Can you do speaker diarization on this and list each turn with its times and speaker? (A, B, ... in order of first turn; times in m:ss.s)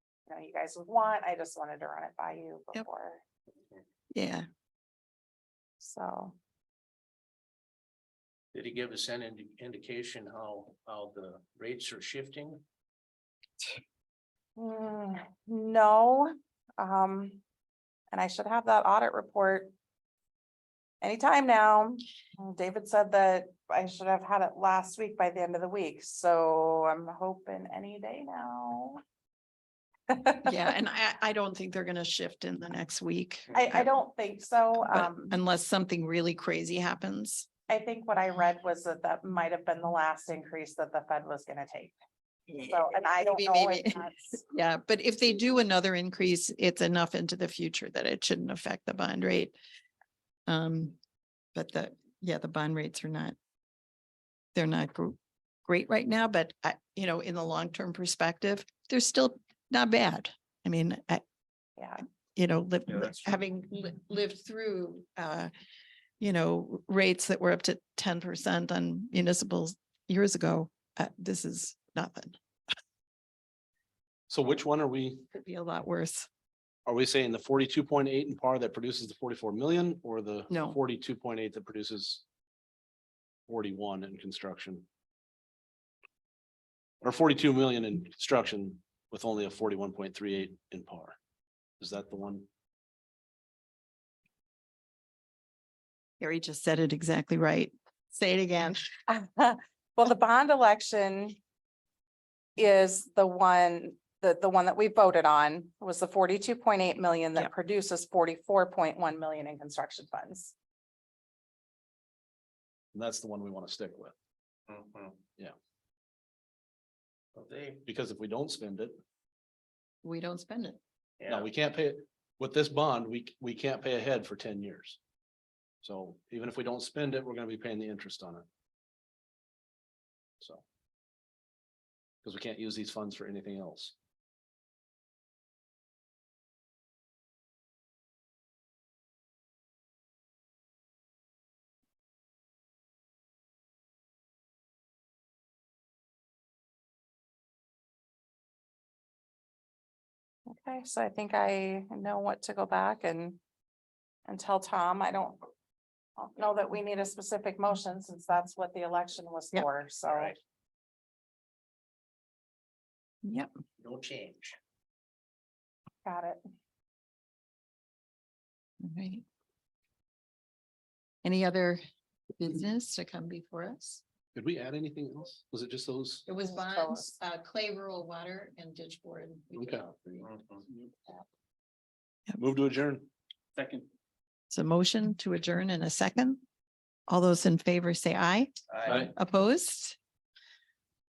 0:00.3-0:03.2 A
0:04.1-0:04.4 B
0:05.8-0:06.4 A
0:08.5-0:12.6 C
0:14.6-0:17.4 A
0:18.1-0:19.7 A
0:21.0-0:29.0 A
0:30.1-0:30.5 A
0:30.4-0:33.9 B
0:33.5-0:35.4 A
0:34.7-0:37.5 B
0:37.7-0:42.0 A
0:42.5-0:49.6 B
0:42.6-0:44.4 A
0:50.5-0:51.0 B
0:51.5-0:53.4 B
0:54.5-1:01.2 B
1:01.8-1:02.0 A
1:02.3-1:05.5 B
1:06.2-1:12.4 B
1:14.3-1:15.2 D
1:15.3-1:16.3 B
1:16.8-1:22.2 D
1:20.5-1:20.8 B
1:23.5-1:24.8 D
1:27.0-1:31.2 D
1:31.8-1:32.4 D
1:36.2-1:38.9 B
1:39.1-1:41.4 A
1:42.6-1:50.5 A
1:52.9-1:54.1 D
1:54.7-1:55.2 C
1:57.4-1:57.8 C
1:57.8-1:59.0 D
2:00.0-2:00.8 B
2:01.2-2:01.5 C
2:01.3-2:05.0 D
2:05.8-2:08.4 D
2:12.2-2:13.9 D
2:30.5-2:33.4 A
2:34.2-2:35.4 A
2:36.2-2:40.3 A
2:40.0-2:40.4 C
2:43.2-2:43.5 B
2:43.8-2:44.6 C
2:46.0-2:46.4 A
2:48.8-2:49.2 B
2:51.2-2:51.8 B
2:52.4-2:54.0 B
2:54.3-2:56.3 D
2:56.2-3:00.3 B
2:56.4-2:57.1 A
2:59.5-2:59.8 D
3:00.2-3:00.6 C
3:02.4-3:03.1 D
3:03.6-3:03.9 C
3:04.5-3:06.4 B
3:07.1-3:10.0 B
3:08.7-3:09.0 C
3:08.9-3:09.1 D